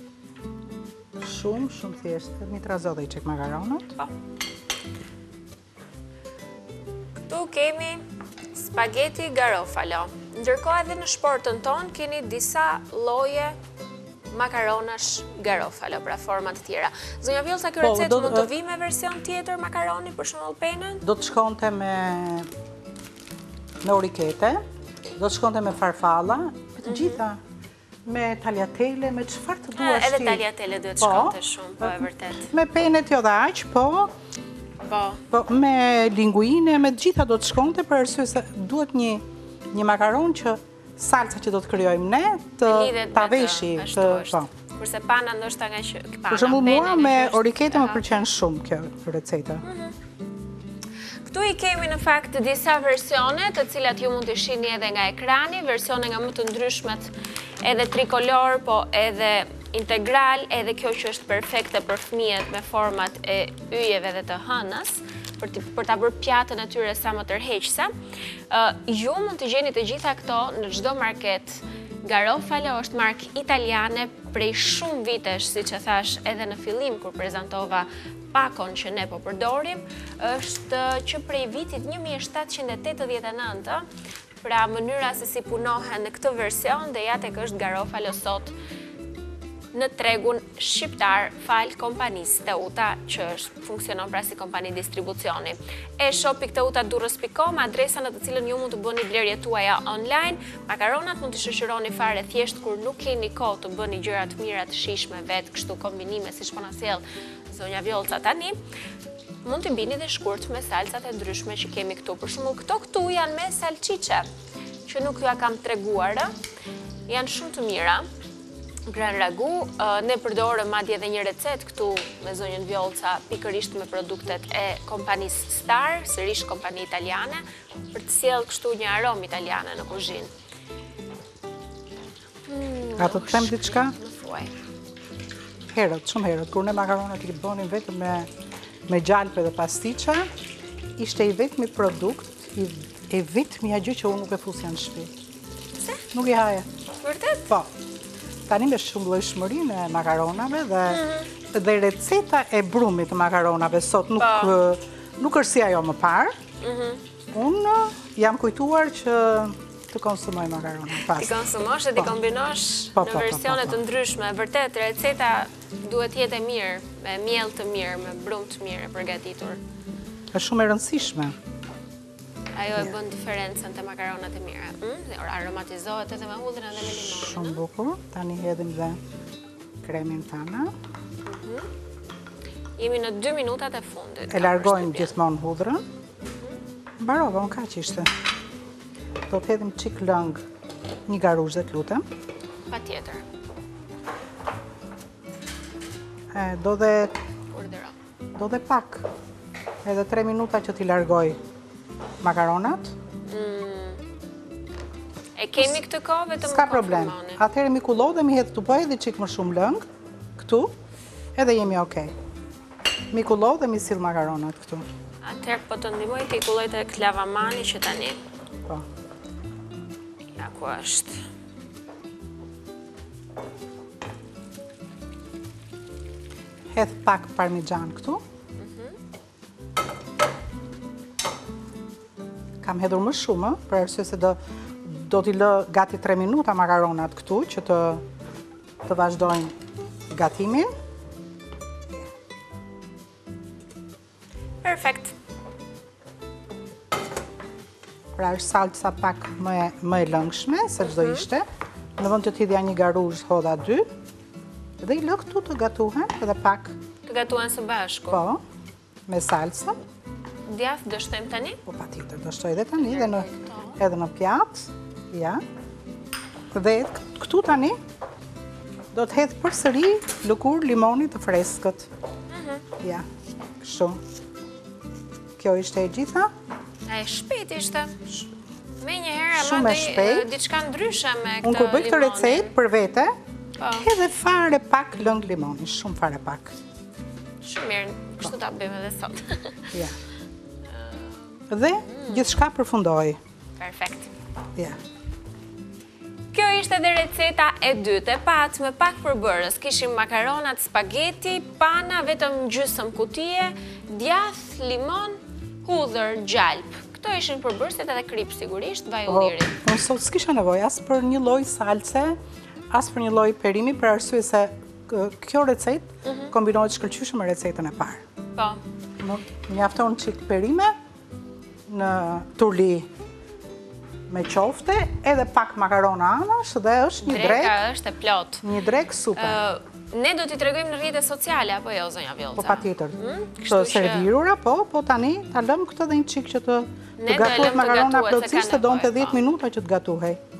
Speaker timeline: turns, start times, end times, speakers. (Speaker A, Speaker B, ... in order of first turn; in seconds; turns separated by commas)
Speaker A: 1.2-3.9, Speaker B: 7.3-13.6, Speaker B: 14.3-21.0, Speaker A: 17.8-18.5, Speaker A: 21.0-22.5, Speaker A: 23.8-24.6, Speaker A: 25.1-27.4, Speaker B: 26.8-27.2, Speaker A: 28.0-30.4, Speaker B: 29.7-32.5, Speaker A: 31.0-34.1, Speaker B: 34.9-35.2, Speaker A: 35.3-44.5, Speaker B: 42.6-48.0, Speaker A: 46.3-49.6, Speaker B: 49.6-50.0, Speaker B: 51.2-67.9, Speaker B: 68.5-83.8, Speaker B: 84.4-88.5, Speaker B: 89.7-108.6, Speaker B: 109.4-114.3, Speaker B: 114.9-116.3, Speaker B: 117.1-118.1, Speaker B: 118.9-130.3, Speaker B: 132.5-134.5, Speaker A: 133.0-133.9, Speaker A: 135.7-138.3, Speaker A: 138.9-140.3, Speaker A: 141.0-145.1, Speaker B: 145.8-146.1, Speaker A: 146.1-146.7, Speaker B: 147.0-147.5, Speaker A: 148.5-156.3, Speaker B: 150.8-151.3, Speaker B: 154.2-154.6, Speaker B: 156.6-157.0, Speaker A: 157.3-161.3, Speaker B: 160.9-169.6, Speaker A: 162.9-163.8, Speaker A: 170.3-171.3, Speaker B: 172.5-177.6, Speaker A: 177.0-179.0, Speaker A: 179.8-180.7, Speaker B: 181.2-181.7, Speaker B: 182.8-185.2, Speaker A: 184.3-185.8, Speaker A: 187.0-188.1, Speaker A: 189.3-190.4, Speaker A: 191.1-192.0, Speaker B: 192.7-193.2, Speaker A: 196.3-197.2, Speaker B: 197.5-197.9, Speaker A: 198.3-199.1, Speaker A: 199.8-201.4, Speaker A: 202.2-202.9, Speaker B: 203.3-204.0, Speaker B: 205.3-207.4, Speaker A: 206.4-209.8, Speaker A: 210.4-210.7, Speaker A: 211.3-212.1, Speaker A: 213.1-214.8, Speaker B: 215.2-218.2, Speaker B: 220.3-221.2, Speaker A: 226.7-228.2, Speaker B: 228.6-229.0, Speaker A: 232.6-238.0, Speaker A: 238.8-239.5, Speaker A: 240.1-240.7, Speaker B: 244.6-245.1, Speaker A: 248.2-251.4, Speaker B: 250.8-251.2, Speaker A: 252.0-253.8, Speaker A: 254.8-256.7, Speaker B: 257.0-258.2, Speaker A: 258.1-258.4, Speaker A: 259.1-259.8, Speaker B: 260.4-261.6, Speaker A: 261.7-265.4, Speaker B: 262.8-263.8, Speaker A: 266.5-267.8, Speaker A: 268.9-271.9, Speaker B: 272.3-272.6, Speaker A: 272.8-273.1, Speaker A: 273.6-274.0, Speaker A: 275.4-276.3, Speaker B: 276.9-278.0, Speaker B: 278.8-282.6, Speaker A: 279.3-280.3, Speaker A: 281.4-283.1, Speaker B: 283.6-283.9, Speaker A: 283.8-286.5, Speaker B: 287.4-289.8, Speaker B: 290.6-292.3, Speaker A: 291.5-293.2, Speaker B: 293.6-294.1, Speaker B: 296.3-309.6, Speaker A: 309.1-312.2, Speaker A: 312.7-318.0, Speaker B: 316.0-316.3, Speaker B: 318.3-318.6, Speaker A: 319.0-320.7, Speaker A: 321.7-322.9, Speaker A: 324.1-327.6, Speaker B: 327.0-328.5, Speaker A: 328.4-329.4, Speaker B: 329.1-334.1, Speaker A: 332.4-340.2, Speaker B: 337.0-339.2